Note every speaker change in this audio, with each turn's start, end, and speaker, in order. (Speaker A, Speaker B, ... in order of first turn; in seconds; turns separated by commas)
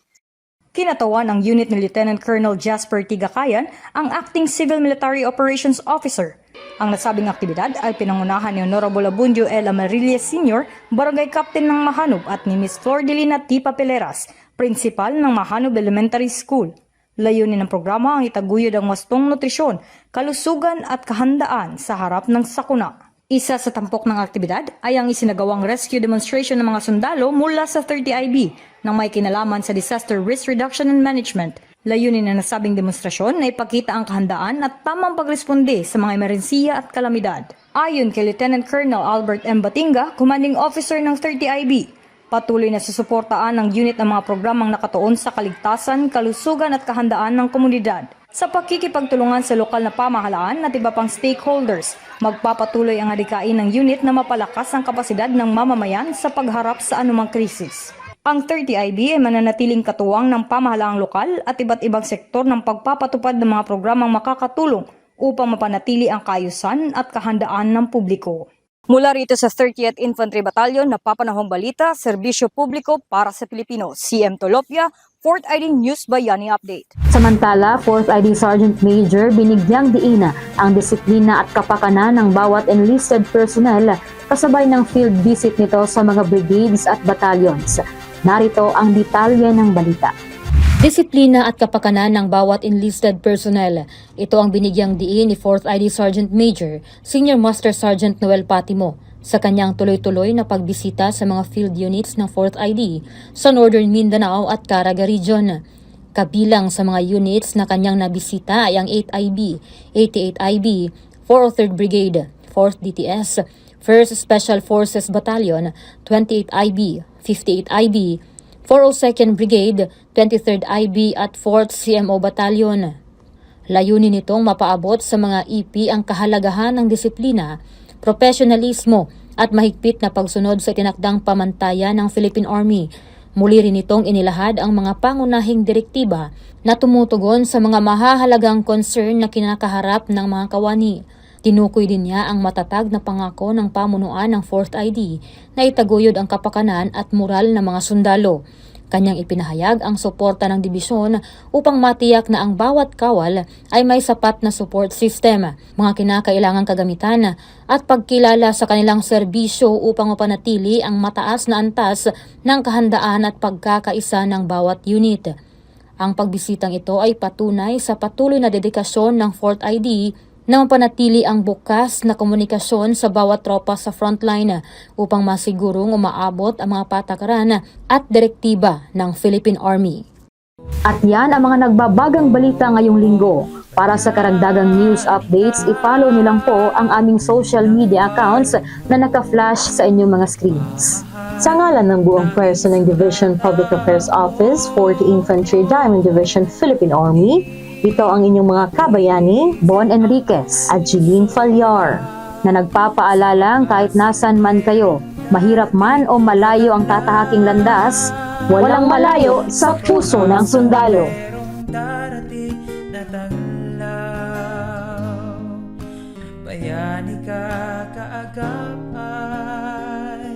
Speaker A: 0.8-76.9, Speaker B: 77.1-90.1, Speaker C: 90.8-105.6, Speaker C: 106.2-122.9, Speaker C: 123.7-132.9, Speaker C: 133.4-148.4, Speaker C: 148.9-165.3, Speaker C: 166.0-180.1, Speaker B: 180.9-191.0, Speaker D: 191.4-199.7, Speaker B: 199.7-200.7, Speaker D: 200.7-202.1, Speaker B: 202.4-211.1, Speaker D: 208.6-210.2